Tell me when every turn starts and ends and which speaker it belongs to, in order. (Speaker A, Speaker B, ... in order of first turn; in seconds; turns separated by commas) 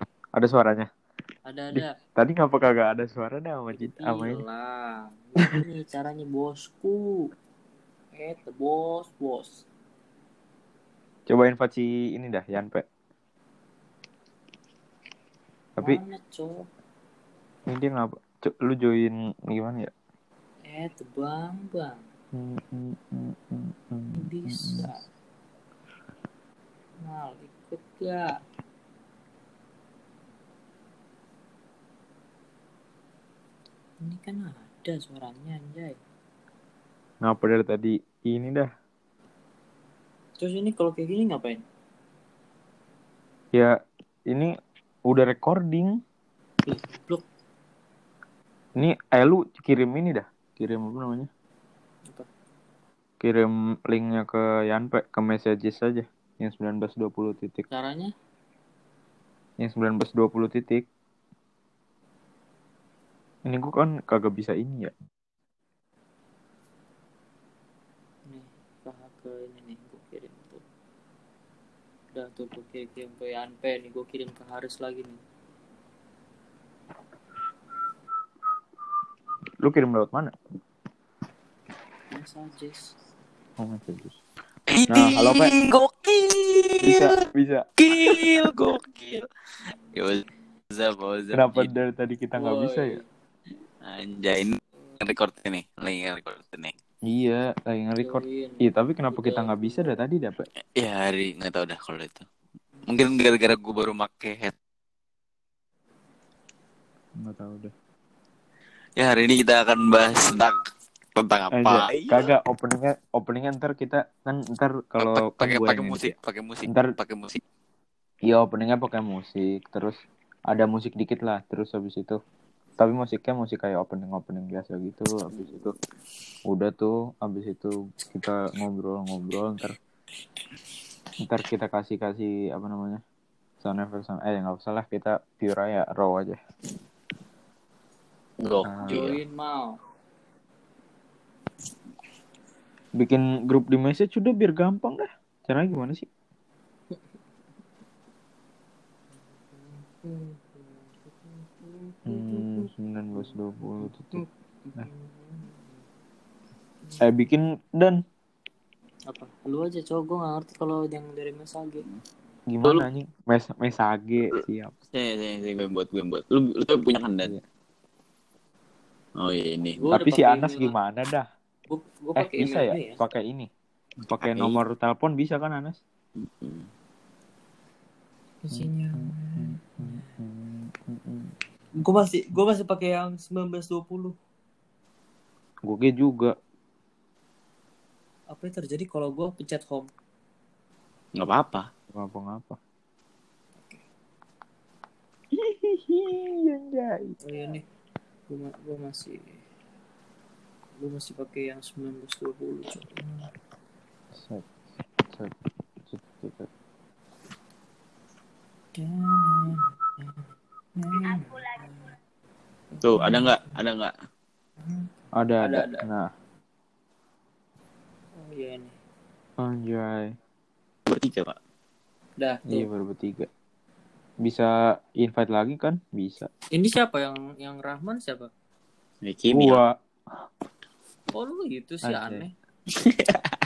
Speaker A: 0.3-0.9, Speaker B: 1.4-1.9, Speaker A: 1.7-4.4, Speaker B: 3.7-7.3, Speaker B: 8.1-9.6, Speaker A: 11.3-12.8, Speaker B: 15.8-16.7, Speaker A: 17.7-19.9, Speaker B: 20.6-22.0, Speaker A: 22.3-24.9, Speaker B: 24.1-25.0, Speaker B: 27.0-28.4, Speaker B: 34.0-36.0, Speaker A: 37.2-38.7, Speaker B: 40.4-41.6, Speaker A: 45.0-46.0, Speaker B: 46.6-47.2, Speaker A: 48.8-51.3, Speaker A: 53.2-57.7, Speaker B: 57.7-58.1, Speaker A: 59.6-60.9, Speaker A: 63.4-64.9, Speaker B: 68.3-70.6, Speaker B: 72.1-75.2, Speaker A: 79.6-80.3, Speaker B: 82.1-82.9, Speaker A: 83.6-84.2, Speaker C: 84.7-87.2, Speaker A: 84.9-85.5, Speaker A: 86.8-87.7, Speaker C: 87.8-89.2, Speaker C: 89.9-91.7, Speaker A: 91.3-93.0, Speaker B: 92.3-93.0, Speaker C: 93.8-96.7, Speaker A: 97.0-100.5, Speaker B: 98.0-100.0, Speaker C: 100.8-102.2, Speaker C: 102.8-104.5, Speaker A: 107.2-107.7, Speaker C: 109.0-110.5, Speaker C: 111.2-112.3, Speaker A: 111.5-116.1, Speaker C: 115.0-117.4, Speaker A: 116.7-116.9, Speaker A: 118.2-120.0, Speaker A: 120.5-122.2, Speaker A: 122.8-125.7, Speaker A: 126.5-129.8, Speaker A: 131.2-133.0, Speaker A: 133.6-136.4, Speaker C: 138.4-139.2, Speaker A: 138.6-139.2, Speaker B: 138.8-139.8, Speaker A: 143.0-146.1, Speaker B: 149.5-155.8, Speaker A: 152.1-154.2, Speaker B: 156.8-157.1, Speaker A: 157.0-158.0, Speaker B: 159.1-161.8, Speaker A: 162.5-164.7, Speaker C: 164.9-167.3, Speaker C: 169.2-169.8, Speaker B: 169.8-170.8, Speaker A: 169.9-171.3, Speaker B: 171.7-173.0, Speaker A: 172.2-173.5, Speaker A: 174.1-175.8, Speaker C: 174.2-174.6, Speaker C: 176.2-176.7, Speaker B: 178.4-180.1, Speaker A: 178.5-181.3, Speaker B: 181.8-184.2, Speaker A: 185.7-186.3, Speaker B: 188.3-189.9, Speaker C: 191.2-191.7, Speaker A: 191.9-192.6, Speaker A: 195.3-197.2, Speaker B: 197.2-197.6, Speaker B: 198.3-199.4, Speaker B: 200.8-203.3, Speaker A: 204.1-204.5, Speaker A: 205.1-205.3, Speaker A: 205.9-206.5, Speaker B: 208.7-210.2, Speaker B: 210.8-211.9, Speaker B: 212.7-213.6, Speaker C: 212.8-213.9, Speaker B: 214.6-215.8, Speaker A: 215.1-216.1, Speaker B: 218.2-218.8, Speaker A: 219.4-220.1, Speaker C: 220.9-221.3, Speaker B: 222.2-222.7, Speaker A: 222.5-223.3, Speaker A: 224.2-226.3, Speaker B: 226.5-228.3, Speaker C: 229.0-229.6, Speaker A: 229.3-229.8, Speaker B: 231.1-232.3, Speaker A: 231.8-232.2, Speaker C: 232.8-233.2